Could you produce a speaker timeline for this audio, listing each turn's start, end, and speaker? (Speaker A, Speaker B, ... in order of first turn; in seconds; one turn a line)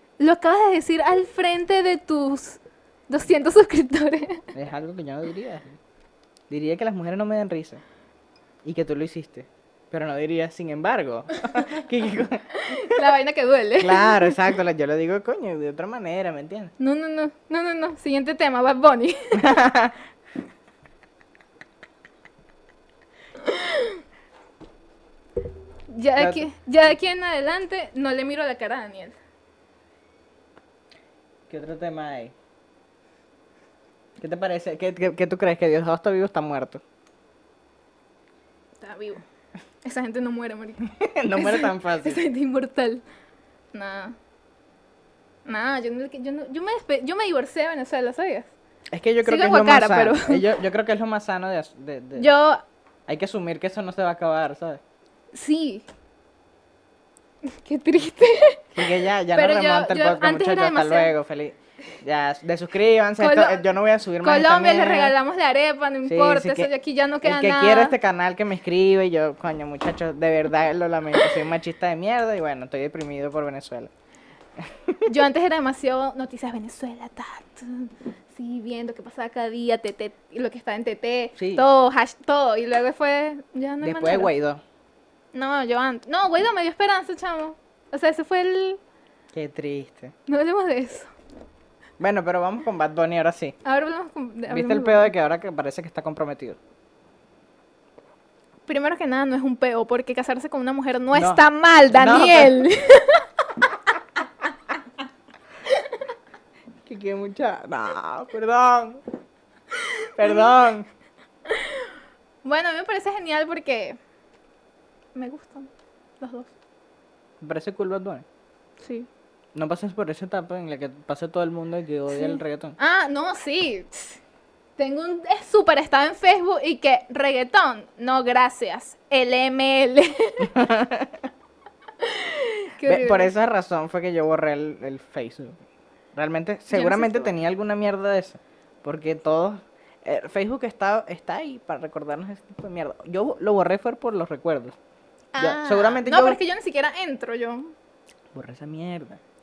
Speaker A: 0.2-4.5
Speaker B: 4.5-5.8
Speaker B: 6.5-7.8
Speaker B: 8.6-13.1
Speaker A: 12.5-14.4
Speaker B: 13.8-16.7
Speaker A: 16.8-19.6
Speaker B: 19.4-20.0
Speaker A: 23.4-24.0
Speaker A: 25.9-29.2
Speaker B: 26.2-26.4
Speaker B: 31.5-32.3
Speaker B: 34.2-36.8
Speaker A: 38.8-39.2
Speaker A: 39.8-43.0
Speaker B: 40.9-42.2
Speaker A: 43.7-44.2
Speaker A: 45.5-48.5
Speaker B: 48.9-52.3
Speaker A: 49.2-50.4
Speaker A: 52.2-52.6
Speaker B: 53.1-54.8
Speaker A: 55.3-55.9
Speaker A: 57.5-58.8
Speaker B: 58.8-65.2
Speaker A: 59.3-61.1
Speaker A: 63.2-63.6
Speaker A: 64.2-68.0
Speaker B: 66.0-66.7
Speaker B: 67.2-73.9
Speaker B: 74.6-75.0
Speaker A: 75.0-84.3
Speaker B: 81.4-81.7
Speaker B: 83.8-84.6
Speaker A: 85.3-88.8
Speaker B: 89.3-90.1
Speaker A: 90.3-91.1
Speaker B: 92.0-93.6
Speaker A: 93.6-95.1
Speaker B: 94.5-96.6
Speaker A: 98.7-103.2
Speaker B: 101.2-102.7
Speaker B: 106.8-109.0
Speaker A: 110.0-110.5
Speaker B: 110.2-110.9
Speaker A: 111.5-111.9
Speaker A: 112.4-114.0
Speaker A: 115.2-116.5
Speaker B: 117.4-118.2
Speaker A: 118.8-119.1
Speaker B: 119.5-122.8
Speaker A: 122.1-124.2
Speaker A: 124.8-130.6
Speaker B: 130.5-131.2
Speaker A: 132.0-133.3
Speaker B: 132.8-135.6
Speaker B: 136.2-144.8
Speaker A: 136.7-137.3
Speaker A: 145.3-147.7
Speaker B: 145.4-146.4
Speaker B: 148.3-149.2